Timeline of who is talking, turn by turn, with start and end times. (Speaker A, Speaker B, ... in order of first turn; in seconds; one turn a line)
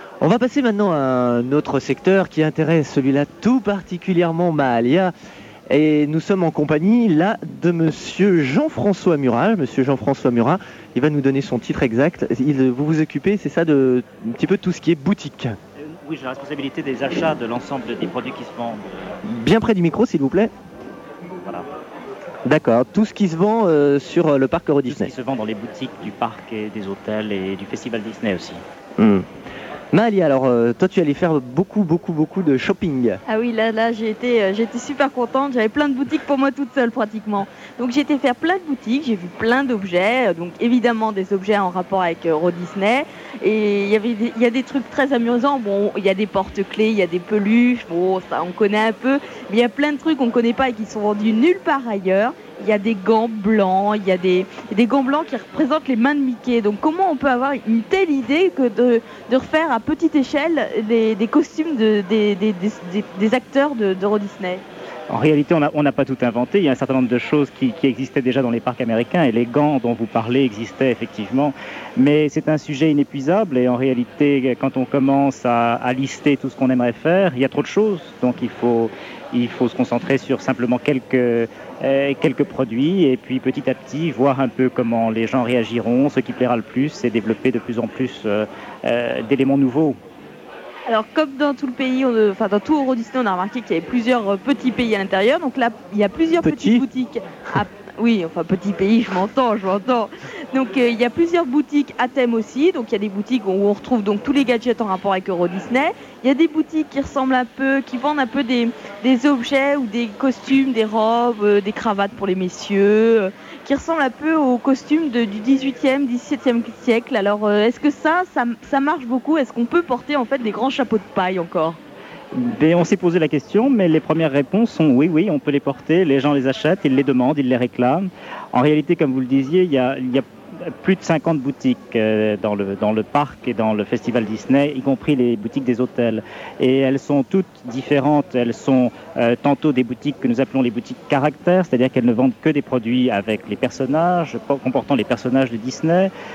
Speaker A: 0.2-5.1
Speaker A: 5.7-15.6
Speaker B: 15.8-19.1
Speaker A: 19.2-20.5
Speaker A: 22.5-25.1
Speaker B: 24.9-28.6
Speaker A: 29.0-29.3
Speaker A: 29.9-33.2
Speaker C: 33.3-64.6
Speaker B: 65.1-90.0
Speaker C: 90.9-121.8
Speaker A: 96.4-96.9
Speaker B: 122.3-146.1